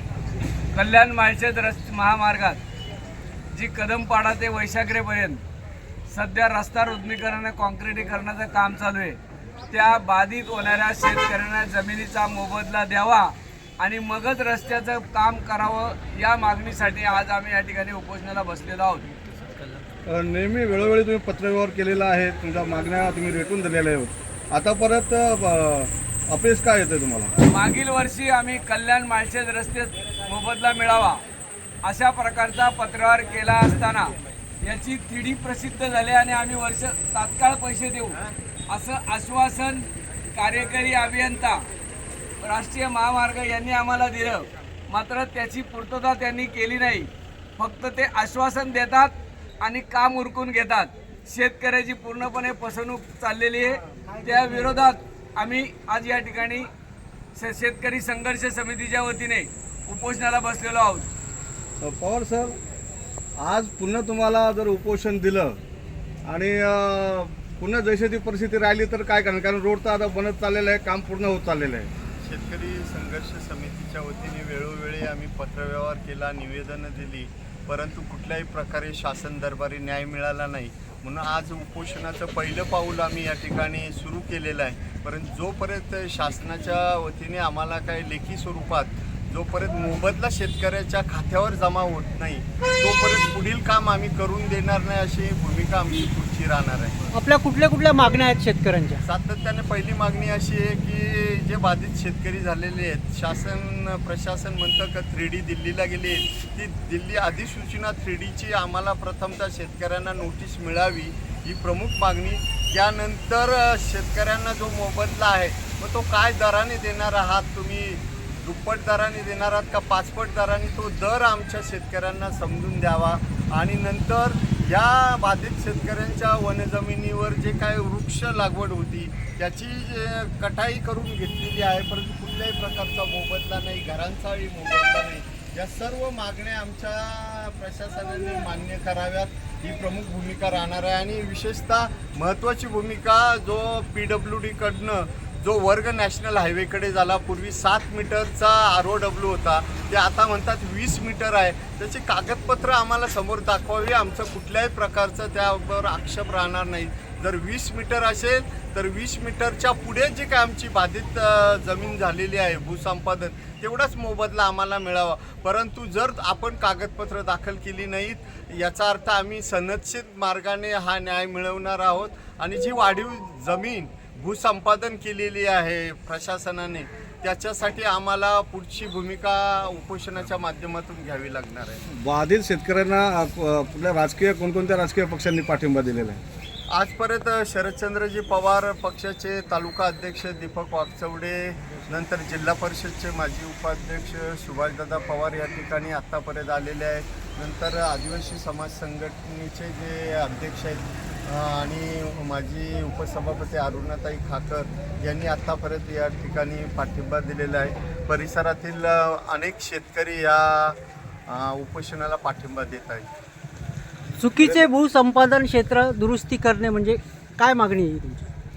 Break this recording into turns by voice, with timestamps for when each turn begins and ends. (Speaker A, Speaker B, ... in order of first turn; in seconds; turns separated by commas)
Speaker A: 0.7-2.6, Speaker A: 3.5-5.4, Speaker A: 6.1-9.2, Speaker A: 9.7-19.1, Speaker B: 20.1-27.3, Speaker A: 27.4-31.2, Speaker A: 31.8-41.7, Speaker A: 42.4-56.7, Speaker A: 57.4-61.1, Speaker B: 61.8-62.6, Speaker B: 63.4-65.6, Speaker B: 66.3-71.9, Speaker C: 72.2-97.0, Speaker D: 97.1-99.0, Speaker C: 99.0-181.8, Speaker B: 181.9-186.2, Speaker C: 186.7-213.1, Speaker D: 214.2-218.3, Speaker C: 214.3-214.7